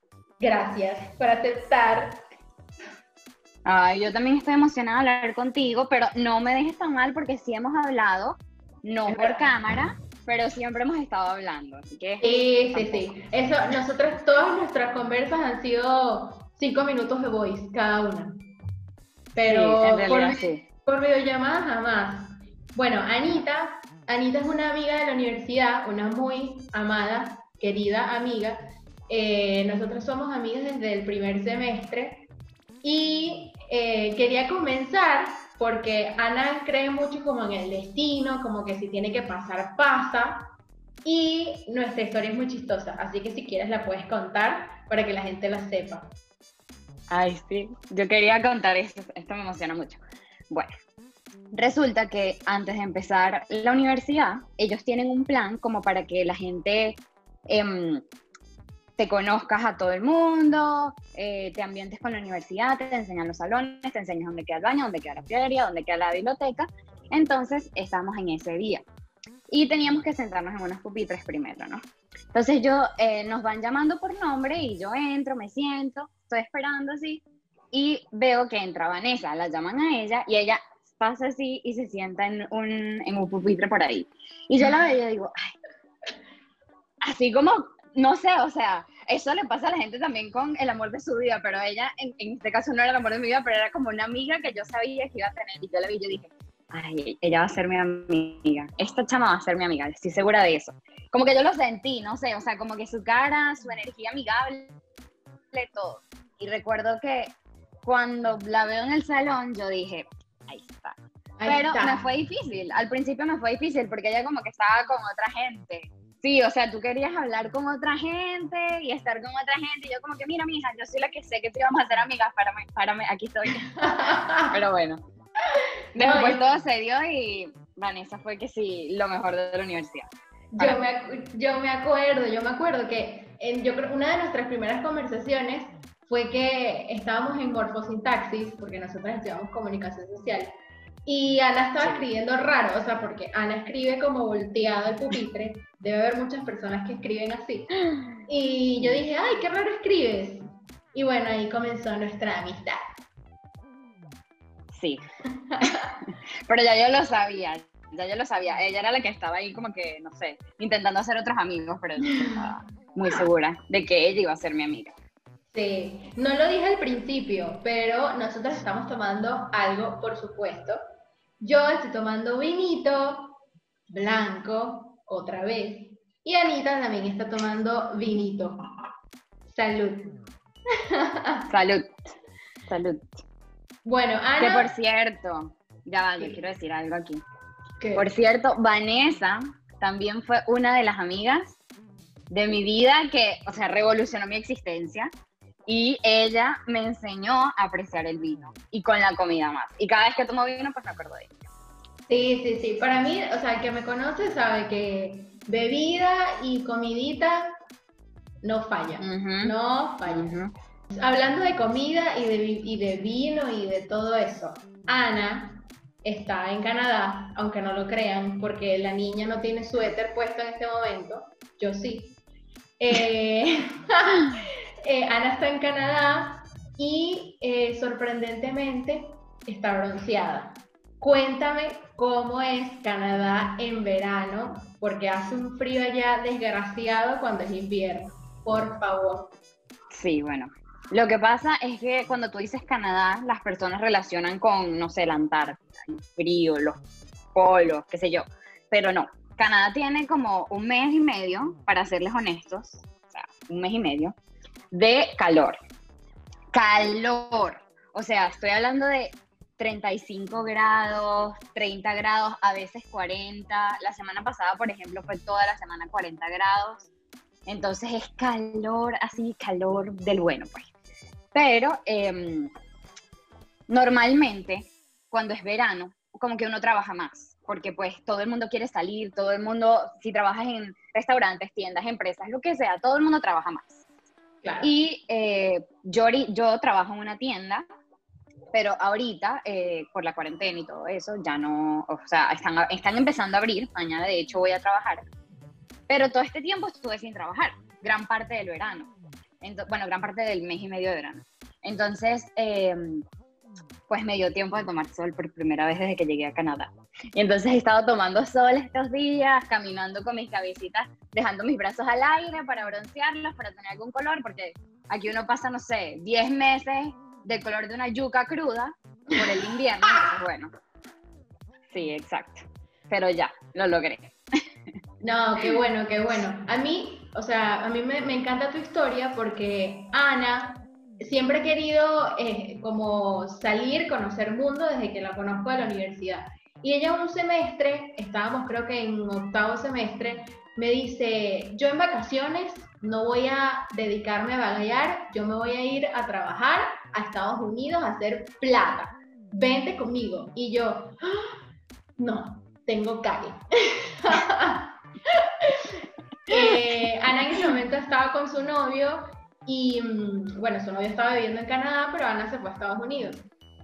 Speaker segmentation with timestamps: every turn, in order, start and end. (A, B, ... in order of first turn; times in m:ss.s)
0:00.4-0:02.2 A
0:03.6-0:13.1 B
0:09.0-0:09.5 A
0:12.2-0:18.5 A
0:19.3-0:32.3 A
0:19.4-0:20.6 B
0:32.8-0:40.5 A
0:41.0-0:46.1 A
0:47.1-0:50.8 B
0:51.5-0:58.0 B
0:59.0-1:08.8 B
1:09.5-1:11.8 B
1:12.3-1:25.5 B
1:27.0-1:44.8 B
1:45.5-2:03.8 B
1:51.4-1:52.0 A
2:03.8-2:04.5 A
2:04.4-2:05.0 B
2:05.9-2:06.5 A
2:06.0-2:10.1 B
2:10.5-2:20.5 A
2:21.0-2:32.8 A
2:21.8-2:22.0 B
2:28.8-2:29.0 B
2:34.7-2:35.0 B
2:35.3-2:35.9 A
2:35.6-2:44.9 B
2:42.1-2:42.4 A
2:45.5-2:50.8 A
2:51.4-2:53.4 A
2:53.9-2:58.6 A
2:59.5-3:00.2 A
3:00.9-3:01.5 A
3:01.5-3:02.0 B
3:02.7-3:03.2 B
3:03.8-3:04.7 A
3:04.4-3:07.2 B
3:07.8-3:08.1 A
3:08.0-3:11.6 B
3:12.3-3:15.1 B
3:15.6-3:21.5 B
3:22.1-3:27.5 A
3:28.4-3:30.4 A
3:29.0-3:29.5 B
3:30.0-3:30.5 B
3:30.9-3:42.2 A
3:42.8-3:59.3 A
3:59.9-4:06.8 B
4:07.3-4:14.1 B
4:14.7-4:15.6 B
4:16.5-4:26.9 B
4:27.4-4:30.7 B
4:31.3-4:32.5 B
4:33.7-4:43.8 B
4:44.4-4:44.7 A
4:44.6-4:47.6 B
4:48.5-4:55.0 B
4:55.9-5:03.0 B
5:03.9-5:20.5 B
5:21.7-5:24.1 B
5:25.0-5:51.3 A
5:52.0-5:55.8 A
5:56.3-6:03.3 A